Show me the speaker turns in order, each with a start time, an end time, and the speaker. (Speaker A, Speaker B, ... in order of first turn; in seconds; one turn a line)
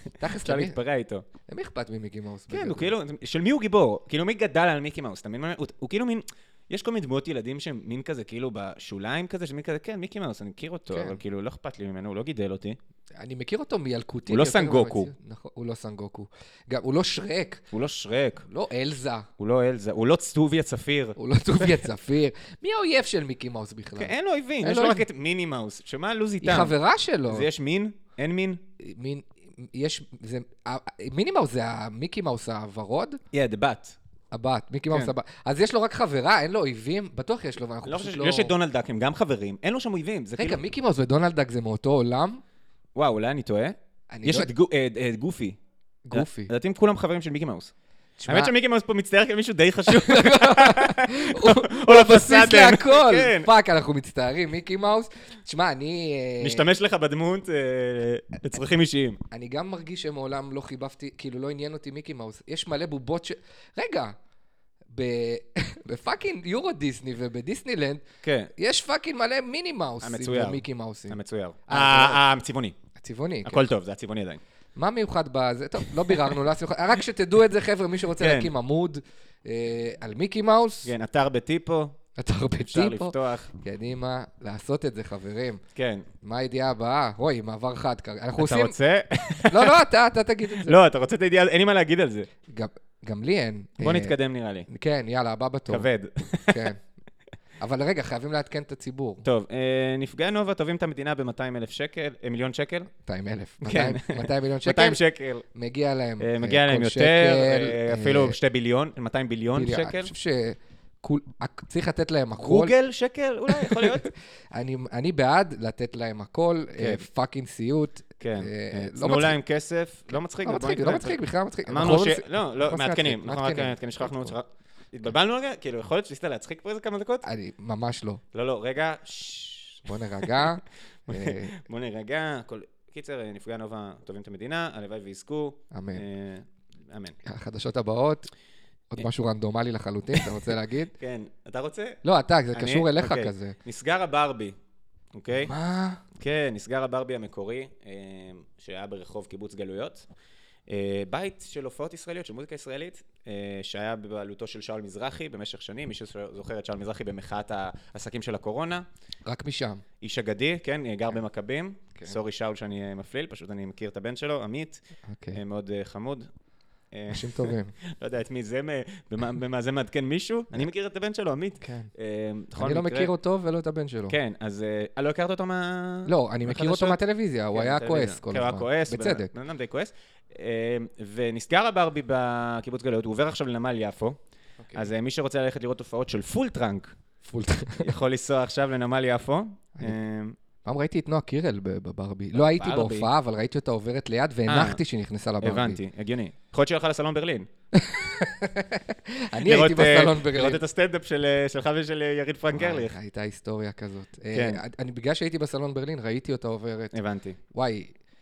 Speaker A: 0.2-0.8
Speaker B: 0.2-1.3
Speaker A: 1.5-2.9
Speaker B: 2.5-12.8
Speaker A: 10.9-11.2
Speaker A: 13.2-17.6
Speaker B: 14.3-15.1
Speaker B: 17.7-18.5
Speaker A: 18.5-19.3
Speaker B: 19.4-21.9
Speaker A: 21.2-25.0
Speaker B: 24.0-26.8
Speaker A: 26.4-27.5
Speaker B: 27.3-28.6
Speaker A: 28.8-33.2
Speaker B: 33.3-34.0
Speaker A: 34.3-38.5
Speaker B: 37.9-40.6
Speaker A: 40.4-42.4
Speaker B: 43.0-45.6
Speaker A: 44.1-44.5
Speaker A: 46.1-46.5
Speaker B: 46.1-47.7
Speaker A: 48.2-48.5
Speaker B: 48.3-53.5
Speaker A: 49.9-56.6
Speaker B: 56.4-59.2
Speaker A: 59.3-64.2
Speaker A: 64.9-68.0
Speaker B: 68.2-68.5
Speaker A: 68.6-72.2
Speaker B: 70.0-72.8
Speaker A: 73.0-73.7
Speaker B: 73.5-74.4
Speaker A: 74.8-80.9
Speaker B: 75.9-76.4
Speaker B: 78.2-78.5
Speaker B: 80.8-82.0
Speaker A: 82.2-85.6
Speaker B: 82.7-83.5
Speaker B: 85.8-86.1
Speaker A: 86.2-88.7
Speaker B: 88.4-89.8
Speaker A: 89.5-90.8
Speaker B: 90.5-92.3
Speaker A: 92.5-94.1
Speaker B: 93.8-94.7
Speaker A: 94.7-95.9
Speaker B: 95.7-96.7
Speaker A: 96.5-96.8
Speaker A: 97.6-99.2
Speaker B: 99.2-102.9
Speaker A: 103.0-105.0
Speaker B: 103.6-105.5
Speaker A: 105.5-108.4
Speaker B: 106.2-110.1
Speaker A: 109.5-112.7
Speaker B: 112.4-114.1
Speaker A: 113.5-119.4
Speaker B: 116.8-117.0
Speaker B: 118.2-127.2
Speaker A: 120.2-124.3
Speaker A: 127.2-128.2
Speaker B: 128.3-130.6
Speaker A: 129.9-131.6
Speaker B: 131.1-137.2
Speaker A: 135.7-136.0
Speaker A: 137.2-138.3
Speaker A: 138.9-140.9
Speaker B: 141.0-142.0
Speaker A: 142.0-143.6
Speaker B: 142.5-144.6
Speaker B: 145.1-145.5
Speaker A: 145.4-146.0
Speaker B: 146.2-150.1
Speaker B: 150.7-158.9
Speaker A: 159.3-159.8
Speaker B: 160.0-164.8
Speaker A: 165.1-165.4
Speaker B: 165.3-166.3
Speaker B: 166.9-173.1
Speaker A: 167.1-167.7
Speaker A: 171.6-171.9
Speaker A: 172.6-174.2
Speaker B: 174.1-177.0
Speaker A: 176.1-179.3
Speaker B: 177.5-184.2
Speaker A: 184.6-184.9
Speaker B: 184.7-186.9
Speaker A: 187.2-187.9
Speaker B: 187.8-190.4
Speaker A: 190.6-195.8
Speaker B: 192.3-193.1
Speaker B: 194.5-194.8
Speaker B: 195.4-197.5
Speaker A: 197.7-200.6
Speaker B: 199.4-203.0
Speaker A: 202.5-206.9
Speaker B: 204.3-204.6
Speaker B: 206.9-207.4
Speaker A: 207.5-207.9